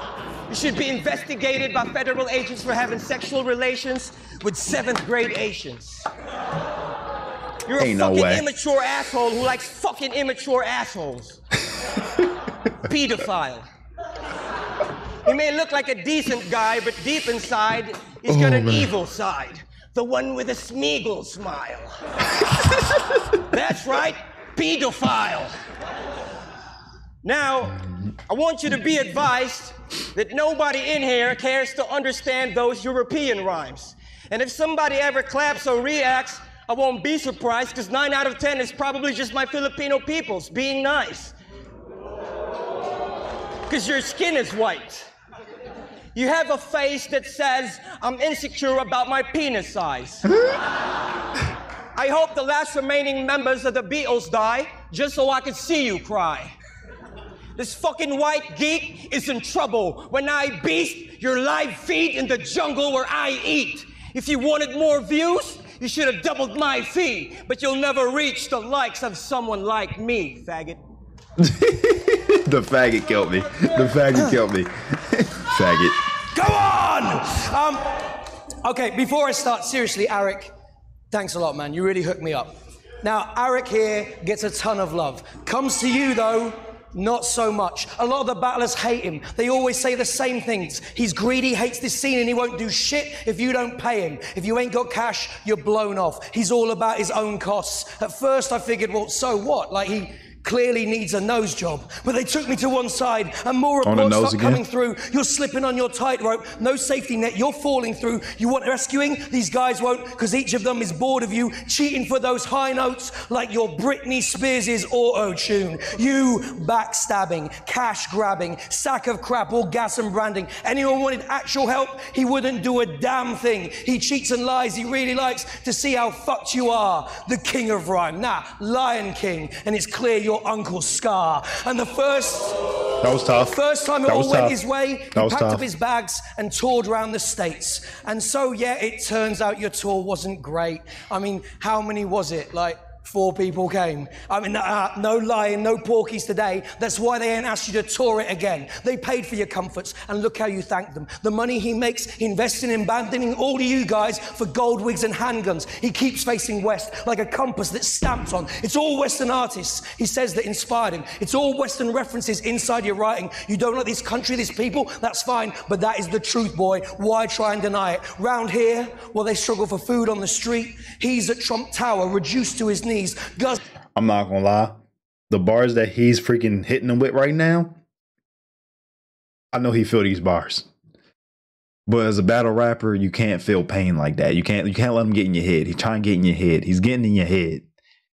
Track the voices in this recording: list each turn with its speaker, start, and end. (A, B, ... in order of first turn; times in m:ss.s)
0:00.5-0:06.1 A
0:07.7-0:11.4 A
0:07.8-0:08.4 B
0:12.8-0:13.6 A
0:15.3-0:22.0 A
0:18.3-0:18.9 B
0:23.5-0:25.6 A
0:27.2-0:41.4 A
0:43.7-0:45.1 A
0:46.2-0:50.3 A
0:52.0-0:56.5 A
0:57.6-1:10.8 A
1:11.4-1:16.0 B
1:16.3-1:18.1 C
1:18.6-1:20.5 C
1:21.1-2:12.6 C
1:43.8-1:44.6 B
2:13.0-2:14.6 B
2:13.3-2:53.6 C
2:15.1-2:15.7 B
2:54.0-2:54.8 B
2:55.3-2:57.8 B
2:59.5-3:00.7 B
3:01.9-3:07.6 B